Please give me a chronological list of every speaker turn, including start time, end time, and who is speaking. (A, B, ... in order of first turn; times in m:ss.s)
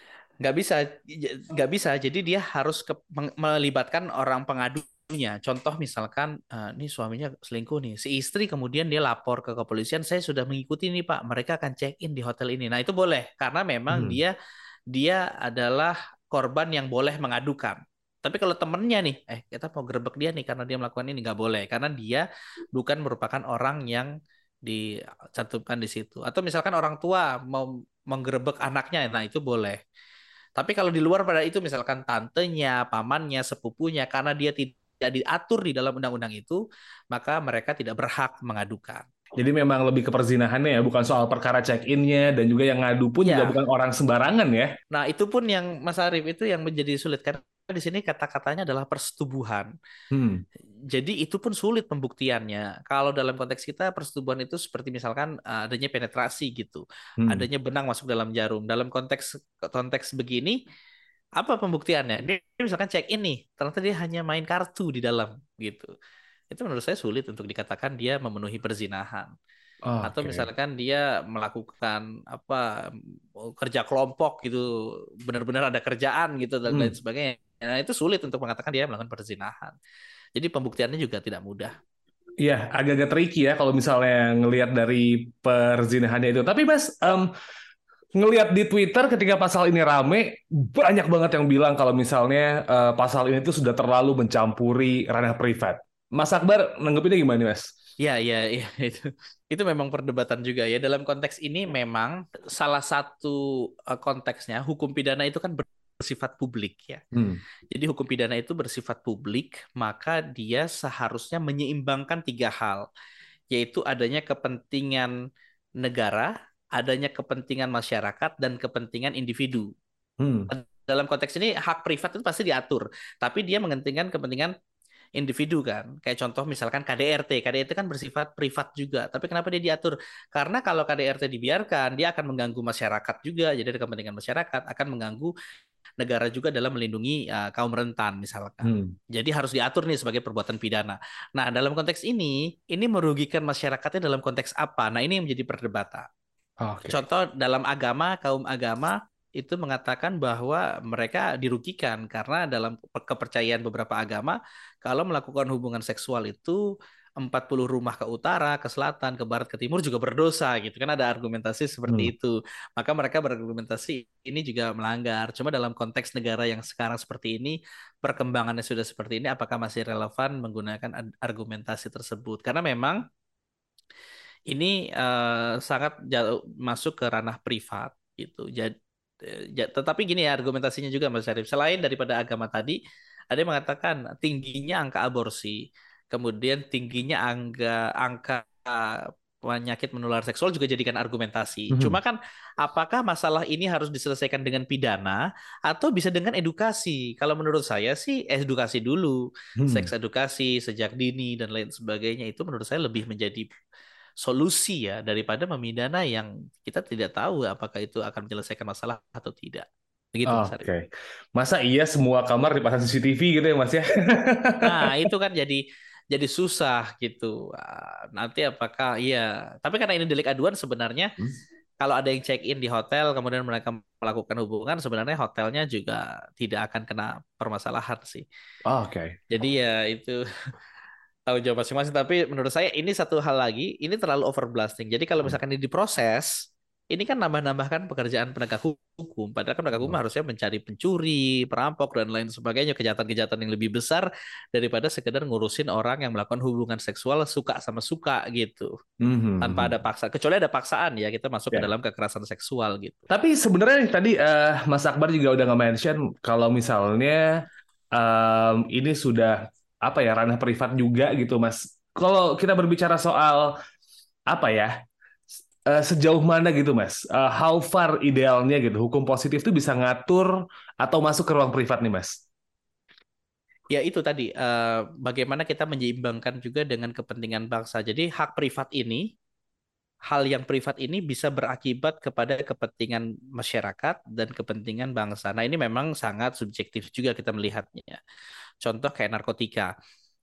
0:00.4-0:14.3 A
0:13.9-0:14.2 B
0:14.9-0:24.1 A
0:25.4-0:29.8 A
0:30.6-0:36.6 A
0:37.1-0:39.0 A
0:39.4-0:44.7 B
0:43.2-0:43.6 A
0:44.9-0:49.7 A
0:50.1-0:50.4 B
0:50.9-1:00.6 A
1:01.4-1:05.9 A
1:06.5-1:09.3 A
1:09.9-1:10.5 B
1:10.0-1:12.7 A
1:13.4-1:14.7 A
1:15.3-1:19.8 A
1:20.4-1:21.8 A
1:22.4-1:27.3 B
1:28.2-1:37.7 B
1:38.0-1:47.0 A
1:47.1-1:47.4 B
1:47.7-1:52.8 A
1:53.5-1:55.1 A
1:55.8-1:59.7 A
2:00.2-2:00.5 B
2:00.5-2:04.5 A
2:05.2-2:15.3 A
2:16.0-2:26.1 A
2:18.6-2:18.9 B
2:26.6-2:27.0 B
2:26.9-2:36.6 A
2:37.2-2:53.0 A
2:54.5-2:58.7 A
2:59.2-3:02.8 A
3:03.3-3:05.6 A
3:06.1-3:23.5 A
3:19.6-3:19.9 B
3:24.2-3:30.7 A
3:30.3-3:34.7 B
3:34.6-3:41.1 A
3:41.8-3:48.2 A
3:48.7-3:49.2 B
3:49.3-3:50.2 A
3:51.3-3:56.3 A
3:56.9-4:08.7 A
4:09.0-4:09.7 B
4:09.4-4:13.0 A
4:13.1-4:17.2 B
4:17.9-4:23.5 B
4:24.3-4:24.7 B
4:25.7-4:30.3 B
4:30.8-4:32.2 B
4:33.7-4:39.0 A
4:40.1-4:48.0 A
4:48.6-4:49.7 A